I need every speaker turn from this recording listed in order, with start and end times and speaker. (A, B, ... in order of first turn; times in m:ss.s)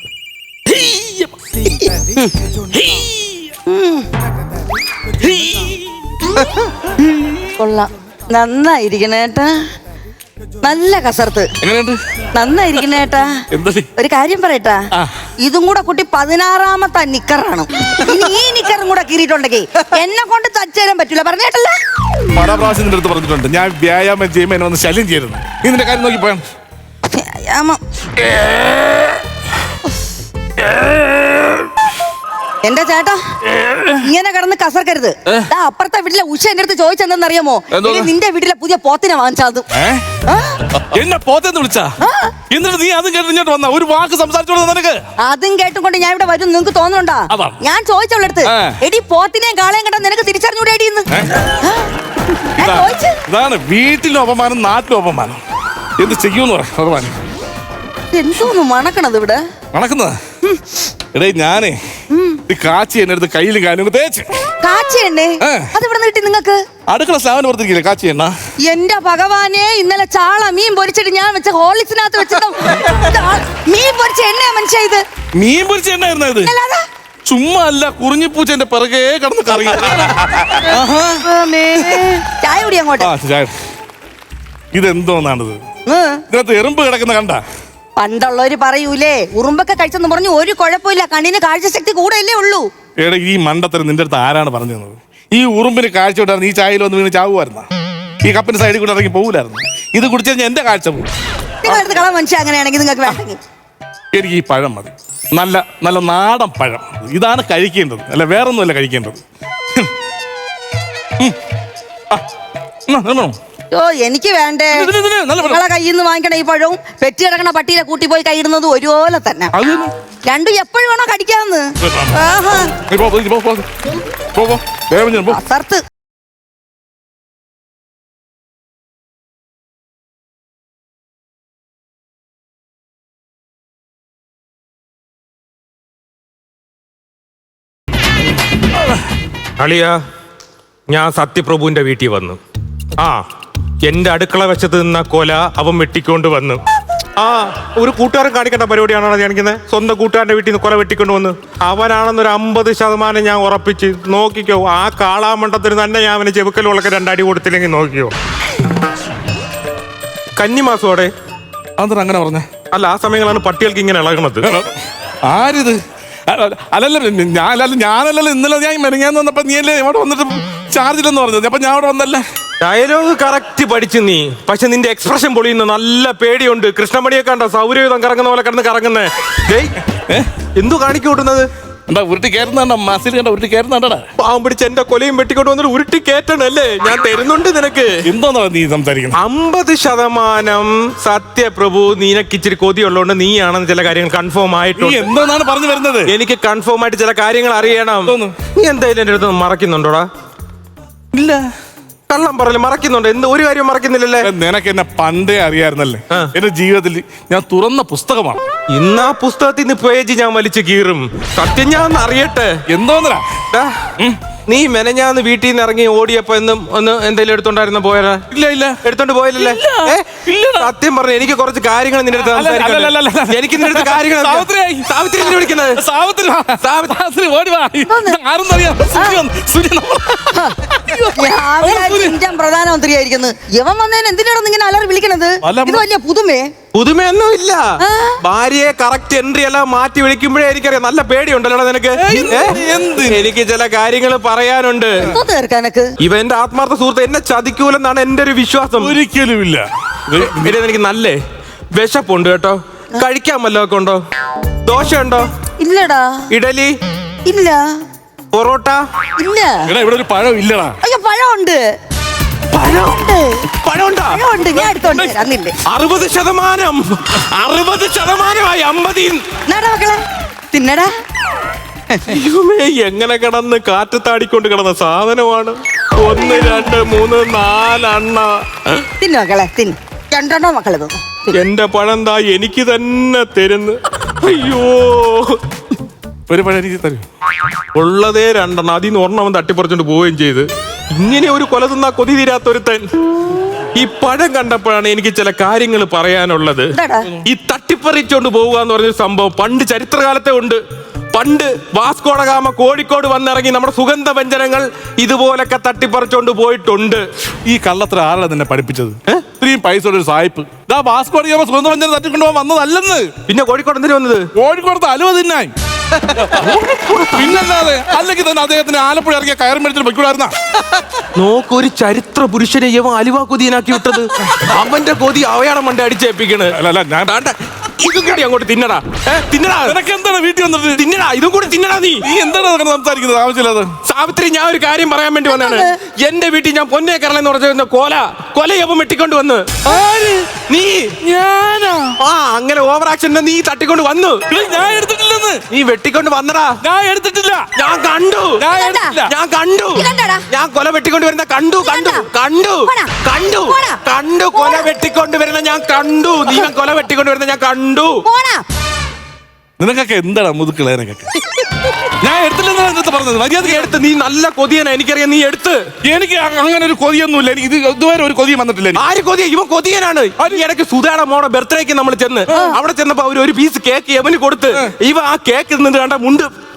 0:00.6-0:01.3 A
0:01.8-0:02.3 B
0:02.7-0:03.5 A
0:03.7-0:04.1 B
0:05.2-0:05.8 A
0:07.0-0:09.5 B
0:10.6-0:11.5 B
0:11.6-0:12.0 A
0:12.3-0:13.4 B
0:13.5-0:13.9 A
0:14.0-0:14.8 B
0:15.4-0:21.8 B
0:22.3-0:26.4 A
0:27.1-0:28.3 B
0:32.6-0:33.2 B
0:33.5-0:34.0 A
0:33.9-0:39.7 B
0:37.7-0:38.1 A
0:39.7-0:40.0 A
0:40.3-0:40.6 B
0:40.8-0:41.9 A
0:42.0-0:42.3 B
0:42.5-0:45.0 A
0:45.2-0:53.2 B
0:47.3-0:47.6 A
0:48.4-0:48.8 A
0:52.6-0:55.4 A
0:56.0-0:57.2 A
0:58.1-0:59.4 B
0:59.7-1:00.2 A
1:01.1-1:01.8 A
1:02.1-1:02.4 B
1:02.5-1:04.3 A
1:04.6-1:06.6 B
1:05.4-1:05.7 A
1:06.9-1:08.3 A
1:08.6-1:15.0 B
1:15.4-1:16.5 A
1:16.4-1:16.8 B
1:17.2-1:21.2 A
1:21.2-1:23.1 B
1:21.8-1:22.1 A
1:23.0-1:23.5 A
1:24.7-1:25.6 A
1:25.8-1:26.2 B
1:26.3-1:27.4 A
1:28.0-1:32.7 B
1:33.0-1:37.7 A
1:38.2-1:41.1 A
1:41.6-1:43.4 B
1:41.6-1:42.0 A
1:44.1-1:49.2 A
1:52.9-1:53.4 A
1:53.7-1:59.5 B
1:54.7-1:55.6 A
1:59.5-1:59.9 A
2:00.2-2:02.7 B
2:01.8-2:02.2 A
2:02.9-2:03.6 A
2:04.3-2:05.4 A
2:05.3-2:05.8 B
2:19.6-2:20.0 C
2:20.9-2:22.4 C
2:23.0-2:23.2 C
2:23.8-2:26.6 C
2:27.2-2:38.1 C
2:40.4-2:41.1 C
2:41.8-2:42.5 A
2:42.7-2:44.5 C
2:44.4-2:44.7 A
2:45.2-2:52.2 A
2:52.6-2:59.7 C
2:59.9-3:00.3 A
3:00.6-3:01.5 C
3:01.9-3:04.0 A
3:04.2-3:07.9 C
3:08.0-3:09.2 A
3:09.1-3:15.0 C
3:14.8-3:16.1 A
3:16.0-3:20.1 C
3:18.0-3:18.4 A
3:21.1-3:21.4 A
3:22.1-3:24.3 C
3:24.2-3:28.4 A
3:28.7-3:32.5 C
3:32.7-3:33.2 A
3:34.5-3:38.2 C
3:38.3-3:38.8 A
3:38.8-3:45.8 C
3:39.4-3:40.7 A
3:42.2-3:44.9 A
3:45.8-3:52.2 A
3:46.6-3:46.9 C
3:47.9-3:48.2 B
3:48.9-3:49.2 B
3:50.3-3:50.5 B
3:51.1-3:56.5 B
3:55.4-3:55.8 A
3:56.7-4:05.1 C
3:57.8-3:58.2 B
4:02.0-4:03.3 A
4:05.0-4:05.9 B
4:06.0-4:08.9 C
4:08.8-4:10.6 A
4:10.2-4:11.2 C
4:11.8-4:14.0 C
4:14.6-4:15.3 C
4:15.6-4:16.2 B
4:16.3-4:16.7 C
4:17.2-4:17.6 B
4:18.3-4:18.8 C
4:19.2-4:19.7 B
4:19.7-4:20.8 A
4:20.8-4:21.6 B
4:22.5-4:23.0 C
4:22.7-4:23.4 B
4:23.6-4:24.2 C
4:24.1-4:25.5 B
4:24.5-4:25.1 A
4:25.6-4:29.2 C
4:29.5-4:30.0 B
4:30.5-4:30.9 B
4:32.0-4:38.8 C
4:39.0-4:41.3 B
4:41.3-4:45.4 C
4:46.3-4:47.0 A
4:47.7-4:52.8 C
4:53.8-5:00.6 C
4:56.7-4:57.1 B
5:01.1-5:07.0 C
5:07.4-5:13.1 A
5:13.3-5:14.3 C
5:14.3-5:15.5 A
5:15.9-5:17.4 C
5:16.2-5:16.5 A
5:17.1-5:20.3 A
5:21.2-5:29.8 C
5:26.5-5:27.2 A
5:29.6-5:30.8 A
5:30.7-5:32.0 C
5:32.0-5:33.7 A
5:33.8-5:39.6 C
5:35.3-5:35.7 B
5:39.6-5:40.4 A
5:40.5-5:41.0 C
5:41.0-5:42.0 A
5:42.0-5:44.2 C
5:44.3-5:45.4 A
5:45.5-5:46.6 C
5:46.6-5:47.5 A
5:47.6-5:48.4 C
5:48.4-5:49.1 A
5:48.5-5:49.0 B
5:49.0-5:58.0 C
5:49.7-5:50.2 B
5:51.6-5:52.1 B
5:52.6-5:53.8 B
5:54.3-5:54.7 B
5:58.0-5:58.4 B
5:59.6-6:01.1 A
6:01.8-6:03.7 A
6:03.4-6:05.6 C
6:05.8-6:08.8 A
6:08.7-6:16.3 C
6:12.3-6:12.5 A